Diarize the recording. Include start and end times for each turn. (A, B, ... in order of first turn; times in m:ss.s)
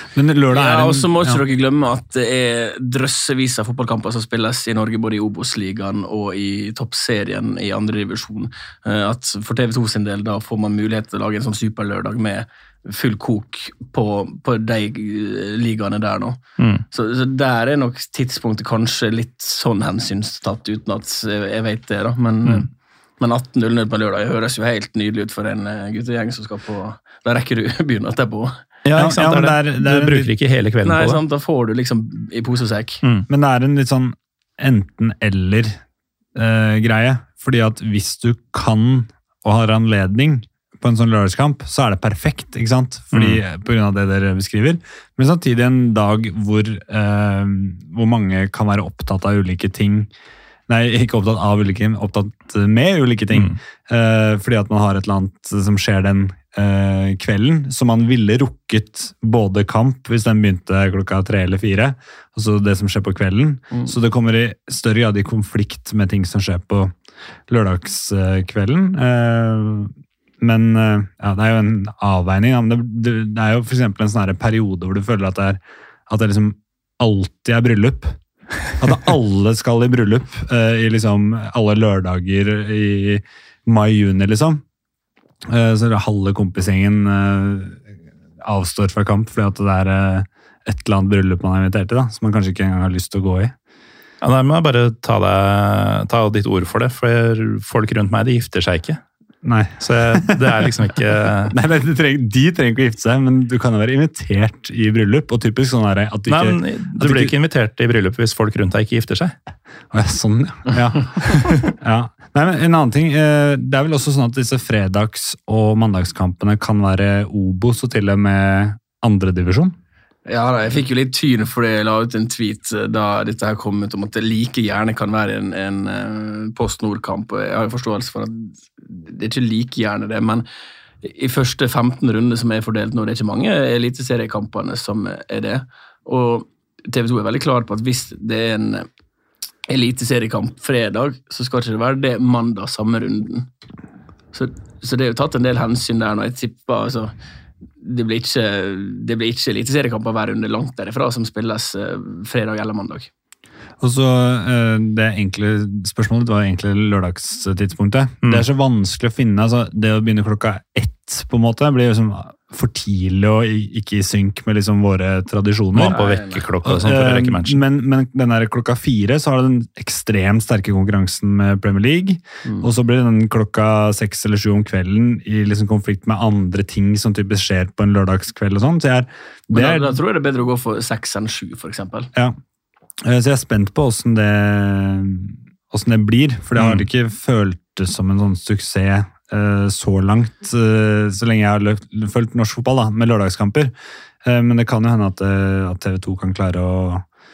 0:00.2-0:01.4 A
0:00.5-0:16.4 B
0:16.6-0:16.8 C
0:16.9-0:22.7 B
0:23.2-0:28.6 B
0:28.8-0:31.2 C
0:29.0-0:30.3 A
0:30.8-0:33.0 B
0:33.3-0:35.8 A
0:36.4-0:50.1 A
0:43.1-0:43.4 C
0:50.7-1:06.9 A
1:07.5-1:18.2 A
1:18.8-1:24.6 A
1:25.5-1:27.8 A
1:28.4-1:33.6 A
1:34.2-1:39.0 C
1:39.4-1:41.0 A
1:39.8-1:41.6 C
1:41.5-1:47.3 A
1:46.3-1:49.4 C
1:49.9-1:59.8 A
1:51.2-1:51.7 C
2:00.3-2:10.4 B
2:11.0-2:18.9 B
2:19.7-2:23.5 B
2:24.3-2:27.1 B
2:27.8-2:33.1 B
2:33.8-2:46.0 A
2:45.8-2:47.6 C
2:46.0-2:46.4 B
2:46.6-3:00.0 A
2:59.5-3:02.1 B
3:03.0-3:13.7 A
3:06.6-3:06.8 C
3:14.2-3:17.1 A